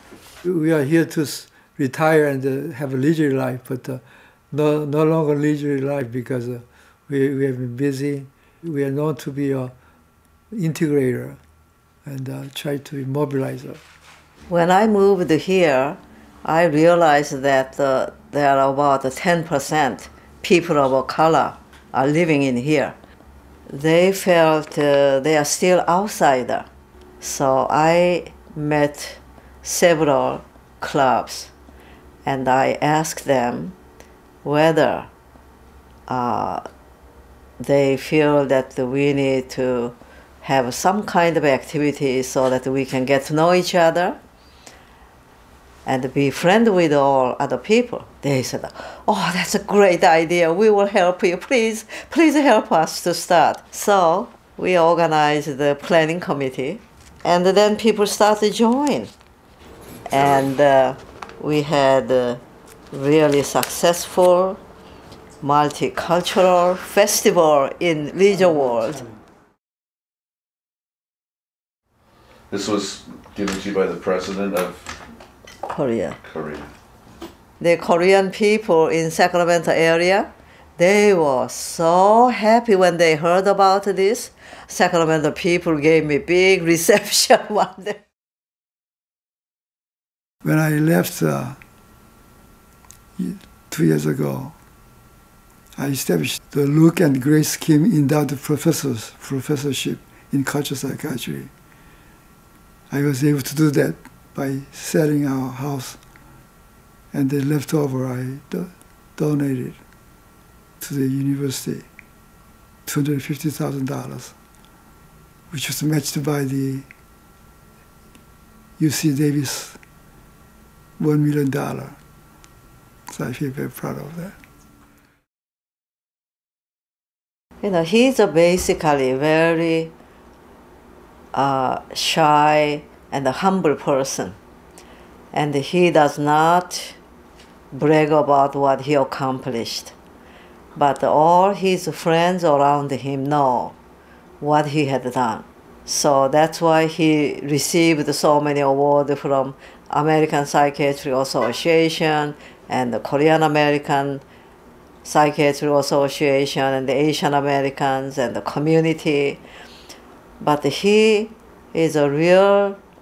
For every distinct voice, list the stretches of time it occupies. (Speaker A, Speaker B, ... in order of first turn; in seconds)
Speaker A: 0.4-9.7, 10.5-11.4, 12.1-13.8, 90.4-91.6, 93.2-94.5, 95.8-101.5, 102.9-106.0, 107.1-109.8, 110.8-111.8, 112.8-114.3, 115.5-116.8, 118.8-119.8, 121.0-122.0, 123.1-124.3
Speaker B: 14.5-22.9, 23.7-26.7, 27.2-31.5, 32.2-33.8, 34.4-35.1, 36.1-36.6, 37.6-44.2, 45.9-59.1, 60.1-62.4, 62.9-64.6, 65.4-69.1, 75.7-76.2, 77.6-88.0, 127.6-129.9, 131.3-134.3, 135.3-137.0, 137.7-139.9, 140.7-143.8, 144.4-154.2, 155.0-159.4, 160.4-162.8
Speaker C: 72.5-74.9, 76.2-76.7